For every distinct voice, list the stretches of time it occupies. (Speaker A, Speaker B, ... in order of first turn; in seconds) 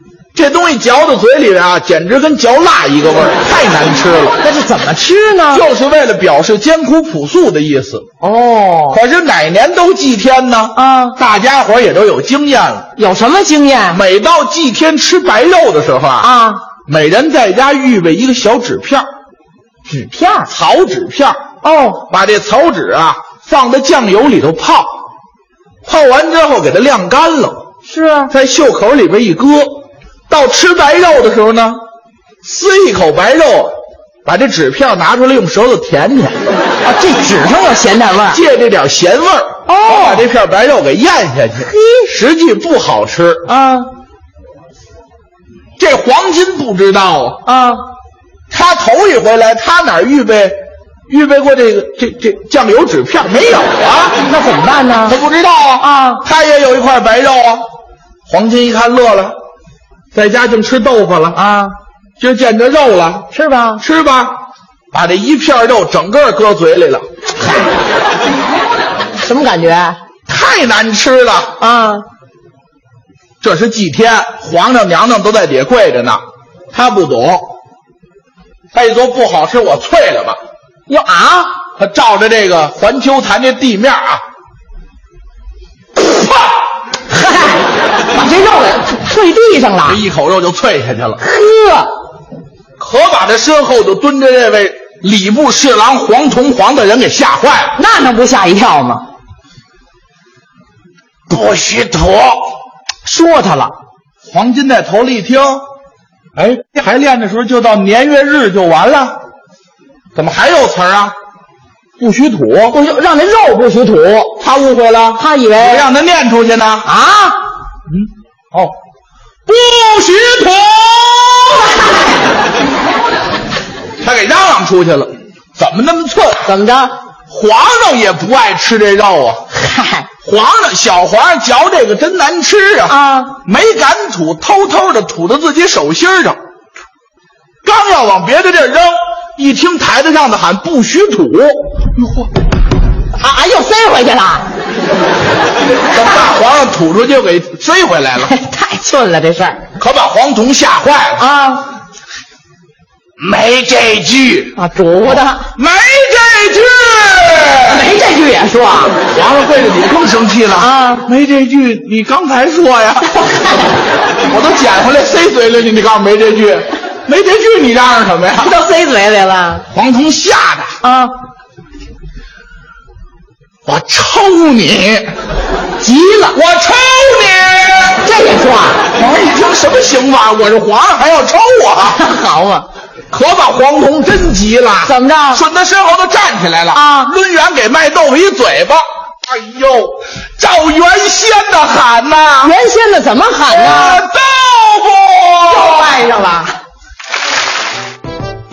Speaker A: 0.3-4.4, 5.5-8.1, 8.9-12.9, 13.9-16.3, 16.9-19.1, 20.5-21.4, 22.1-25.0, 25.8-27.6, 28.3-31.8, 32.4-36.4, 38.3-43.5, 45.8-47.4, 48.5-50.6, 51.1-54.2, 55.0-57.6, 58.3-59.4, 60.1-61.4, 62.2-63.3, 63.8-64.4, 64.9-67.0, 70.3-71.5, 73.4-77.5, 78.7-80.4, 81.8-84.2, 89.8-91.2, 92.8-97.8, 101.3-102.5, 104.3-105.6, 106.3-109.2, 110.1-111.1, 112.0-112.8, 114.4-116.9, 117.9-118.7, 119.5-121.7, 124.0-126.5, 127.3-129.4, 130.2-136.4, 137.6-142.3, 145.9-148.3, 149.8-151.2, 153.2-157.8, 159.1-163.1, 164.3-168.5, 169.7-170.8, 173.6-175.1, 176.3-178.0, 178.9-182.0, 183.1-192.6, 193.5-196.0
Speaker B: 4.4-5.6, 8.2-9.0, 10.7-11.2, 12.9-14.0, 16.2-16.6, 19.9-20.5, 21.6-22.0, 27.9-28.3, 36.8-38.4, 39.7-40.2, 41.6-42.1, 43.5-43.9, 47.4-47.8, 54.2-55.2, 55.8-56.2, 61.3-61.7, 63.3-63.8, 69.2-70.0, 71.6-72.0, 80.9-81.5, 87.1-90.0, 91.2-91.9, 97.7-99.0, 103.0-103.7, 112.7-114.3, 115.2-115.9, 116.8-117.4, 126.4-126.9, 129.5-130.1, 132.9-133.3, 143.1-144.5, 148.2-149.6, 151.2-151.7, 154.5-155.5, 157.7-159.0, 160.6-161.1, 168.3-169.6, 170.8-171.1, 175.8-176.4, 178.0-178.8, 181.9-182.7, 184.8-185.4, 186.7-187.1, 192.4-194.0, 195.5-196.6